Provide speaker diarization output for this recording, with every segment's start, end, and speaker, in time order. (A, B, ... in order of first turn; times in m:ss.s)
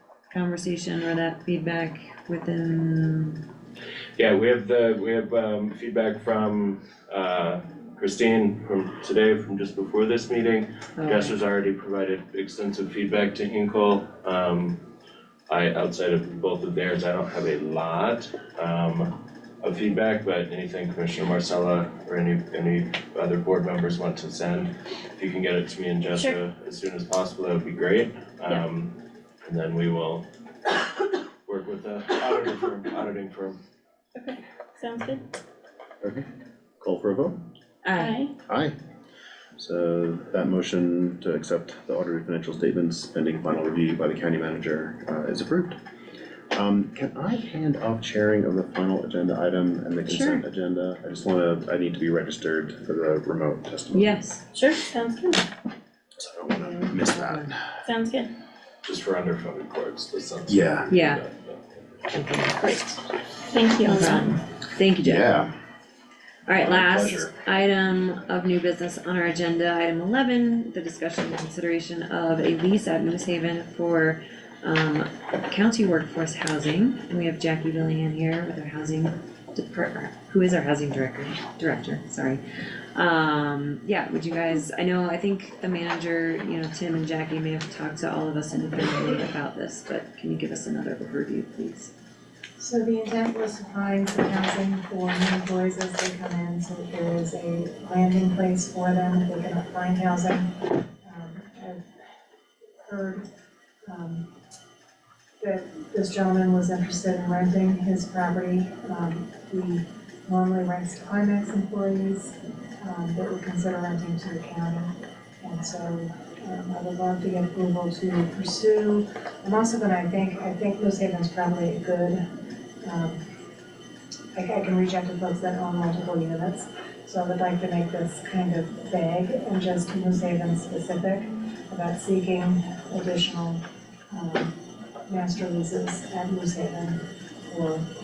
0:00.3-0:03.4 A
0:04.2-0:14.8 B
0:11.0-0:11.3 A
0:15.5-0:30.2 B
0:31.4-0:33.6 B
0:34.2-0:35.2 C
0:36.8-0:37.4 D
0:37.8-0:38.3 A
0:38.0-0:38.3 C
0:38.5-0:38.8 D
0:39.6-0:45.8 D
0:46.5-0:54.2 D
0:53.9-0:54.4 A
0:54.5-0:55.4 C
0:56.2-0:57.6 D
0:56.9-0:57.5 A
0:57.8-0:58.3 C
0:58.8-1:01.6 B
1:00.5-1:00.9 D
1:00.9-1:01.2 A
1:02.1-1:02.7 D
1:02.6-1:03.0 C
1:03.5-1:04.4 C
1:03.8-1:05.3 A
1:05.0-1:05.5 D
1:06.5-1:22.4 A
1:06.5-1:07.3 D
1:22.9-1:31.9 A
1:32.6-1:40.5 E
1:41.0-1:41.8 E
1:42.8-1:43.2 E
1:43.9-1:44.3 E
1:45.4-2:02.2 E
2:02.8-2:03.2 E
2:04.3-2:14.5 E
2:15.0-2:17.8 E